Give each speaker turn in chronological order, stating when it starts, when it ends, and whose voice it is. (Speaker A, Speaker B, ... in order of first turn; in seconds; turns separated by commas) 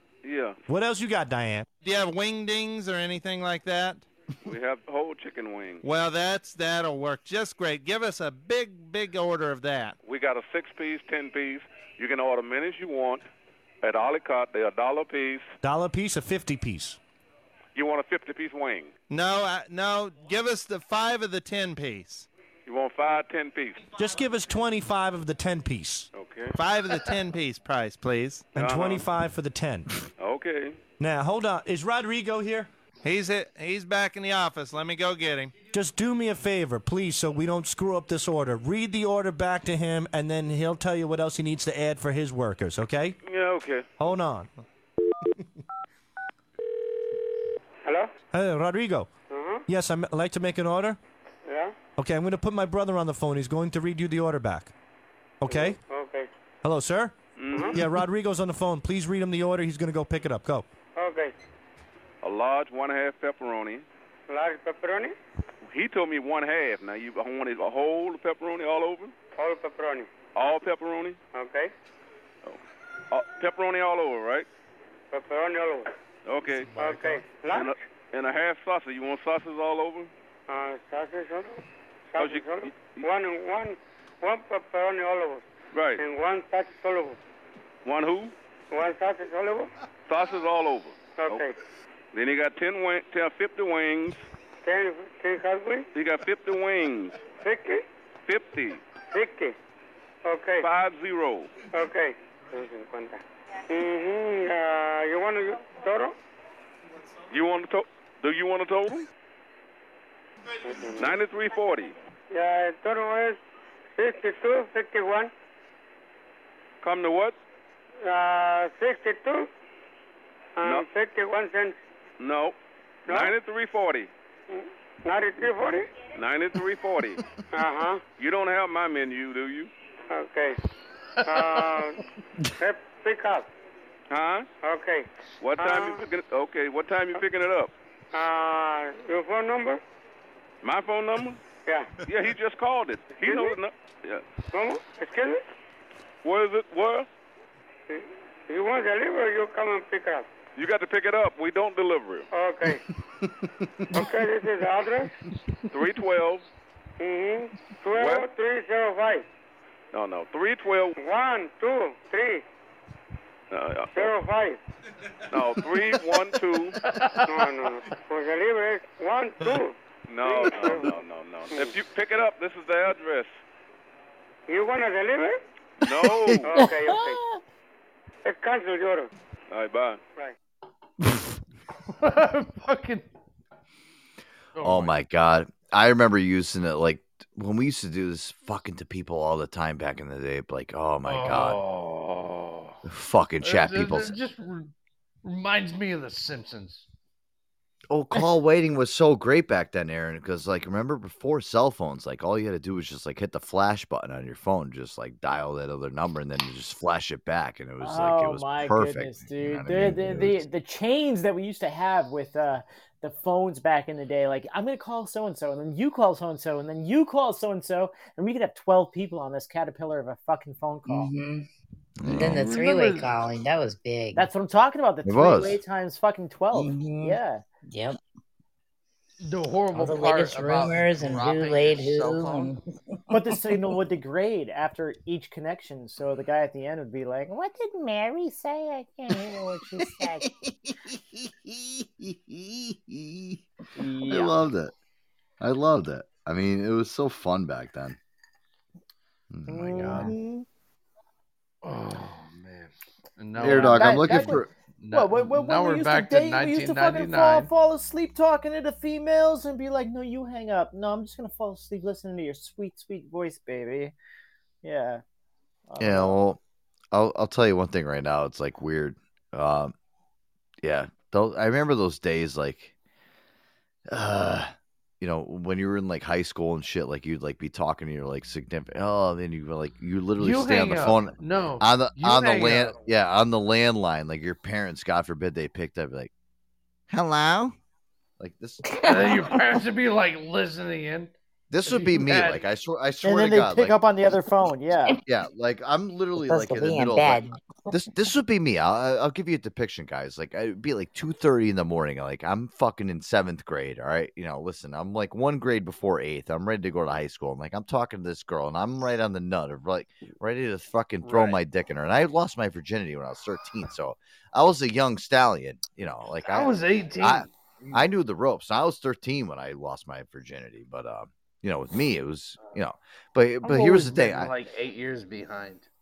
Speaker A: 0.2-0.6, Speaker B: 0.7-1.7, Speaker C: 1.8-4.0, Speaker A: 4.4-5.8, Speaker C: 5.8-10.0, Speaker A: 10.0-13.2, Speaker A: 13.8-15.4, Speaker B: 15.6-17.0, Speaker A: 17.7-18.9, Speaker C: 19.1-22.3, Speaker A: 22.6-23.8, Speaker B: 23.9-26.1, Speaker A: 26.1-26.6, Speaker C: 26.5-28.6, Speaker A: 28.5-29.1, Speaker B: 28.6-29.9, Speaker A: 30.2-30.8, Speaker B: 31.0-32.7, Speaker C: 33.0-35.6, Speaker B: 35.7-43.2, Speaker A: 43.2-43.9, Speaker B: 44.0-44.5, Speaker D: 47.8-48.1, Speaker B: 48.3-49.1, Speaker D: 49.3-49.6, Speaker B: 49.7-51.0, Speaker D: 51.4-51.7, Speaker B: 52.0-54.7, Speaker B: 55.4-55.8, Speaker D: 55.5-56.3, Speaker B: 56.6-57.2, Speaker A: 57.4-57.8, Speaker D: 57.5-57.8, Speaker B: 57.7-60.6, Speaker D: 60.9-61.3, Speaker A: 62.2-63.8, Speaker D: 64.3-65.2, Speaker A: 65.6-69.1, Speaker D: 69.3-70.2, Speaker A: 70.3-71.2, Speaker D: 71.3-71.7, Speaker A: 72.4-74.5, Speaker D: 75.1-75.9, Speaker A: 76.2-76.8, Speaker E: 76.7-77.2, Speaker D: 76.8-77.8, Speaker A: 77.3-80.1, Speaker D: 80.5-81.6, Speaker D: 82.1-85.4, Speaker A: 82.2-83.0, Speaker A: 85.7-86.0, Speaker D: 86.0-87.2, Speaker A: 87.8-88.3, Speaker D: 88.7-89.7, Speaker A: 90.1-91.5, Speaker D: 91.1-91.5, Speaker A: 92.1-94.2, Speaker D: 94.6-95.9, Speaker A: 95.9-97.3, Speaker D: 97.3-97.8, Speaker A: 98.3-98.8, Speaker D: 99.1-99.5, Speaker D: 100.2-100.7, Speaker A: 100.6-101.7, Speaker D: 101.7-106.1, Speaker A: 107.3-109.0, Speaker D: 110.6-111.1, Speaker A: 110.8-111.9, Speaker D: 112.3-113.4, Speaker D: 114.0-115.3, Speaker A: 116.8-117.4, Speaker D: 118.0-119.5, Speaker D: 120.6-121.8, Speaker A: 122.2-122.5, Speaker D: 123.1-123.3, Speaker A: 123.1-124.1, Speaker D: 124.5-126.0, Speaker A: 126.1-127.2, Speaker D: 127.5-128.1, Speaker A: 128.1-129.7, Speaker D: 130.1-130.6, Speaker D: 131.2-132.0, Speaker E: 131.3-131.8, Speaker D: 132.6-133.5, Speaker A: 134.1-134.5, Speaker D: 134.6-136.0, Speaker A: 135.4-137.7, Speaker D: 138.1-139.8, Speaker A: 140.6-144.2, Speaker D: 141.6-141.9, Speaker D: 143.2-143.6, Speaker D: 144.5-145.4, Speaker A: 146.2-147.1, Speaker D: 147.9-150.3, Speaker A: 150.5-152.3, Speaker D: 152.3-152.8, Speaker D: 153.9-155.1, Speaker A: 155.7-156.4, Speaker D: 157.0-159.2, Speaker A: 157.9-158.2, Speaker A: 159.9-160.9, Speaker D: 161.0-162.4, Speaker A: 163.5-164.1, Speaker D: 163.9-164.6, Speaker A: 165.3-166.8, Speaker E: 166.8-167.5, Speaker D: 167.2-171.7, Speaker A: 170.1-173.4, Speaker D: 174.5-175.4, Speaker A: 175.8-176.7, Speaker D: 176.4-177.2, Speaker F: 176.5-177.4, Speaker D: 178.2-179.1, Speaker A: 179.5-180.0, Speaker E: 181.9-183.0, Speaker E: 184.5-184.9, Speaker G: 184.6-191.6, Speaker E: 191.0-192.8, Speaker G: 192.8-194.1, Speaker E: 193.4-194.7, Speaker E: 195.2-196.8, Speaker G: 197.9-210.4, Speaker F: 207.8-221.1, Speaker H: 220.9-221.4, Speaker G: 222.0-222.5, Speaker E: 222.1-223.1, Speaker H: 222.1-224.3, Speaker F: 224.1-227.4, Speaker G: 225.0-225.6, Speaker H: 226.5-228.0, Speaker E: 229.2-232.5, Speaker H: 229.7-232.6, Speaker F: 233.1-240.3, Speaker G: 240.1-243.4, Speaker F: 243.7-244.4, Speaker G: 244.0-244.7, Speaker G: 245.4-248.0, Speaker G: 249.3-250.1, Speaker F: 249.5-250.4, Speaker E: 249.6-250.1, Speaker E: 251.6-257.5, Speaker F: 253.4-263.9, Speaker G: 253.4-254.5, Speaker F: 264.6-265.0, Speaker F: 265.7-266.2, Speaker G: 265.8-266.4, Speaker G: 266.9-269.7, Speaker G: 270.6-272.7, Speaker G: 273.9-286.1, Speaker E: 280.2-282.8, Speaker G: 286.9-287.5, Speaker G: 288.2-289.2, Speaker H: 288.6-289.4, Speaker E: 288.8-291.1, Speaker G: 291.5-293.8, Speaker E: 291.6-292.4, Speaker F: 293.0-295.0, Speaker G: 295.0-324.3, Speaker H: 296.2-297.4, Speaker E: 311.0-311.4, Speaker E: 316.3-317.8, Speaker E: 323.4-325.7